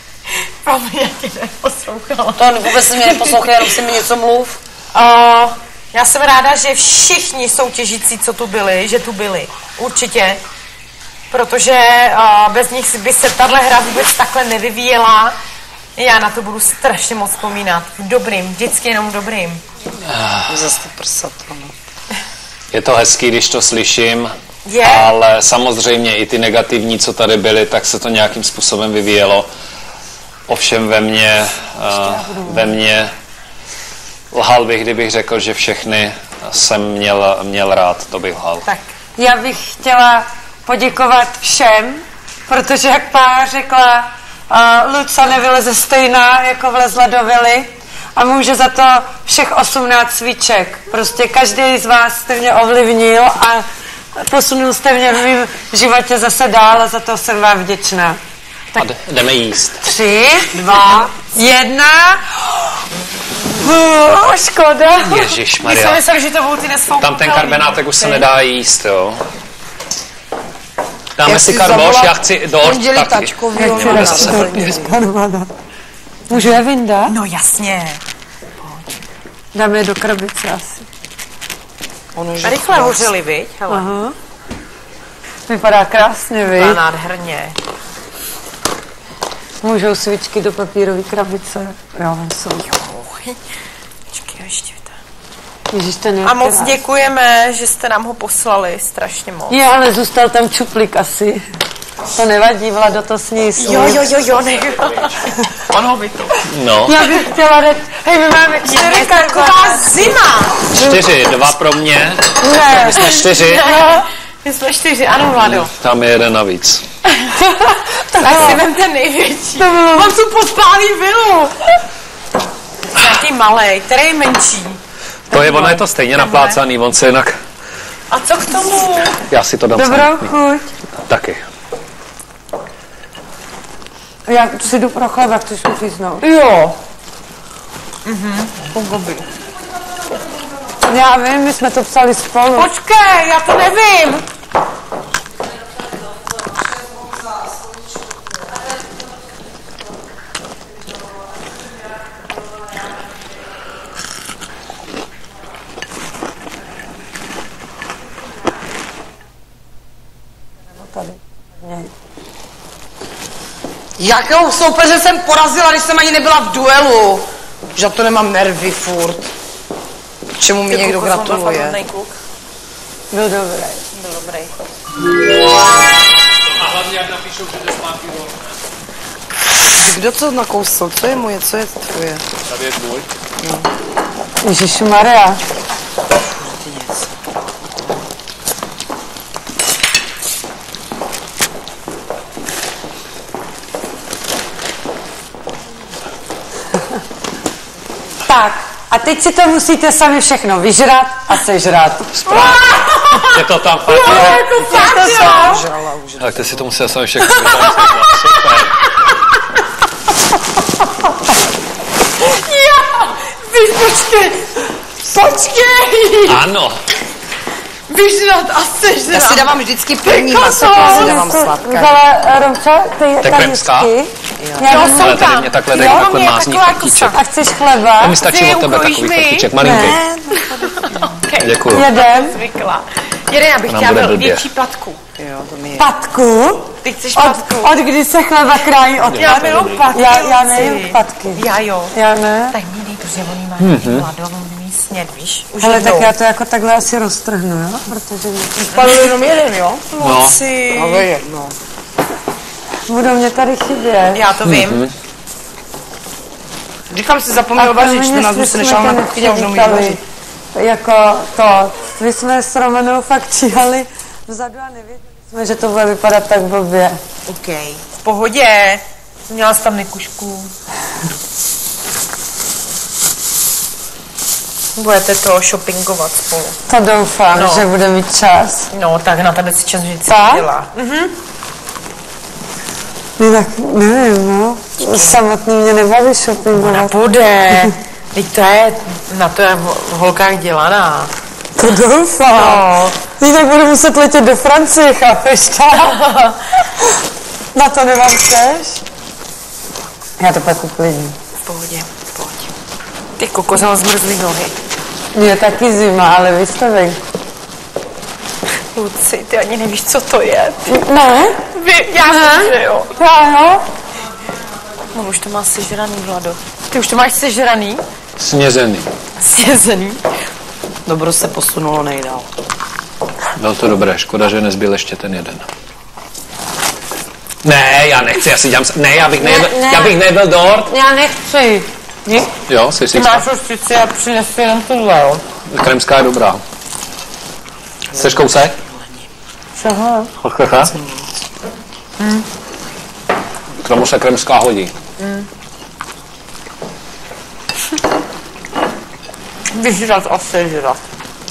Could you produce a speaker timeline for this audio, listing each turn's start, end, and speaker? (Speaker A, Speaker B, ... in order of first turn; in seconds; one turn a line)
Speaker A: 0.3-3.6
Speaker B: 2.4-4.6
Speaker A: 4.9-10.4
Speaker A: 11.3-15.3
Speaker A: 15.9-19.6
Speaker C: 20.1-20.5
Speaker B: 20.5-21.7
Speaker C: 22.7-24.3
Speaker A: 24.6-25.1
Speaker C: 24.8-29.5
Speaker C: 30.5-33.1
Speaker D: 31.9-32.7
Speaker C: 34.3-38.7
Speaker D: 39.1-53.6
Speaker D: 54.1-58.2
Speaker C: 58.7-59.8
Speaker D: 59.8-62.5
Speaker B: 60.7-61.1
Speaker D: 63.5-65.2
Speaker C: 65.0-66.0
Speaker A: 65.6-68.2
Speaker C: 67.0-69.2
Speaker C: 71.2-74.6
Speaker B: 71.2-75.0
Speaker D: 73.5-75.5
Speaker D: 76.3-77.1
Speaker A: 77.1-78.0
Speaker D: 79.5-80.8
Speaker B: 82.1-83.1
Speaker A: 82.4-83.9
Speaker D: 83.7-84.1
Speaker D: 85.5-86.8
Speaker A: 86.5-87.6
Speaker D: 89.6-92.7
Speaker A: 92.6-93.4
Speaker A: 94.1-95.0
Speaker D: 95.7-96.8
Speaker A: 96.2-99.6
Speaker D: 99.5-101.4
Speaker D: 102.1-104.0
Speaker A: 103.6-106.4
Speaker C: 106.5-107.0
Speaker D: 106.8-109.9
Speaker A: 108.6-110.7
Speaker C: 110.7-113.7
Speaker D: 110.7-111.0
Speaker D: 112.4-114.0
Speaker A: 113.1-115.7
Speaker C: 115.3-116.8
Speaker A: 117.1-121.8
Speaker D: 118.1-118.6
Speaker C: 118.2-118.6
Speaker D: 119.6-120.2
Speaker A: 122.9-124.8
Speaker C: 125.3-127.3
Speaker A: 125.3-126.6
Speaker A: 128.1-129.2
Speaker C: 129.3-130.3
Speaker D: 129.7-130.7
Speaker C: 131.1-131.4
Speaker D: 134.3-136.3
Speaker A: 136.2-136.8
Speaker A: 138.0-139.3
Speaker D: 140.8-142.7
Speaker A: 142.5-144.2
Speaker D: 160.7-161.9
Speaker B: 164.0-169.3
Speaker B: 170.4-171.8
Speaker A: 170.7-172.2
Speaker D: 173.1-173.8
Speaker A: 173.9-174.5
Speaker C: 176.6-178.3
Speaker B: 179.8-182.2
Speaker C: 182.5-183.1
Speaker B: 183.4-183.7
Speaker D: 184.4-185.4
Speaker B: 186.4-187.1
Speaker D: 198.2-202.2
Speaker C: 202.1-204.4
Speaker A: 202.3-205.6
Speaker D: 204.0-205.6
Speaker B: 204.5-206.8
Speaker C: 206.2-208.8
Speaker A: 207.2-208.6
Speaker A: 212.2-216.4
Speaker C: 216.2-216.8
Speaker A: 217.9-221.2
Speaker B: 219.1-222.0
Speaker D: 220.7-225.2
Speaker C: 223.2-223.9
Speaker B: 224.4-224.8
Speaker A: 224.7-227.2
Speaker C: 224.7-227.2
Speaker D: 227.1-228.2
Speaker C: 228.0-230.0
Speaker A: 228.2-229.6
Speaker B: 229.6-231.1
Speaker A: 230.3-235.0
Speaker C: 231.4-231.9
Speaker D: 231.7-232.4
Speaker C: 233.7-234.4
Speaker B: 235.2-235.9
Speaker D: 235.8-242.6
Speaker A: 236.8-237.7
Speaker C: 239.1-239.8
Speaker A: 239.2-241.9
Speaker A: 242.5-246.1
Speaker C: 243.6-244.1
Speaker D: 245.6-248.8
Speaker B: 248.6-249.9
Speaker A: 249.9-251.1
Speaker C: 250.0-250.4
Speaker B: 250.7-251.5
Speaker D: 252.9-254.3
Speaker A: 254.1-254.8
Speaker C: 254.4-254.9
Speaker B: 256.9-260.0
Speaker D: 257.6-260.0
Speaker D: 260.5-267.0
Speaker A: 267.3-270.5
Speaker A: 274.7-276.6
Speaker D: 276.7-278.7
Speaker A: 277.3-277.7
Speaker A: 278.7-281.1
Speaker D: 280.1-280.5
Speaker D: 283.2-286.9
Speaker A: 284.8-285.2
Speaker A: 286.5-291.1
Speaker D: 291.6-296.0
Speaker A: 292.3-292.9
Speaker A: 295.8-296.4
Speaker D: 297.5-298.8
Speaker D: 300.2-301.1
Speaker A: 301.4-302.5
Speaker A: 303.2-304.6
Speaker D: 305.1-307.0
Speaker A: 308.7-310.8
Speaker D: 310.7-311.4
Speaker A: 311.5-312.9
Speaker D: 312.0-313.6
Speaker A: 314.9-317.8
Speaker C: 318.2-318.9
Speaker A: 319.2-320.0
Speaker B: 320.9-322.3
Speaker C: 323.4-325.5
Speaker C: 327.4-330.7
Speaker D: 329.2-330.0
Speaker D: 330.6-332.3
Speaker C: 332.5-333.2
Speaker A: 332.9-335.2
Speaker C: 335.5-336.4
Speaker B: 337.9-339.1
Speaker C: 337.9-338.5
Speaker D: 339.6-340.1
Speaker C: 340.2-340.7
Speaker B: 340.7-341.1
Speaker A: 342.0-342.2
Speaker C: 343.6-344.7
Speaker A: 345.0-345.2
Speaker A: 349.5-350.8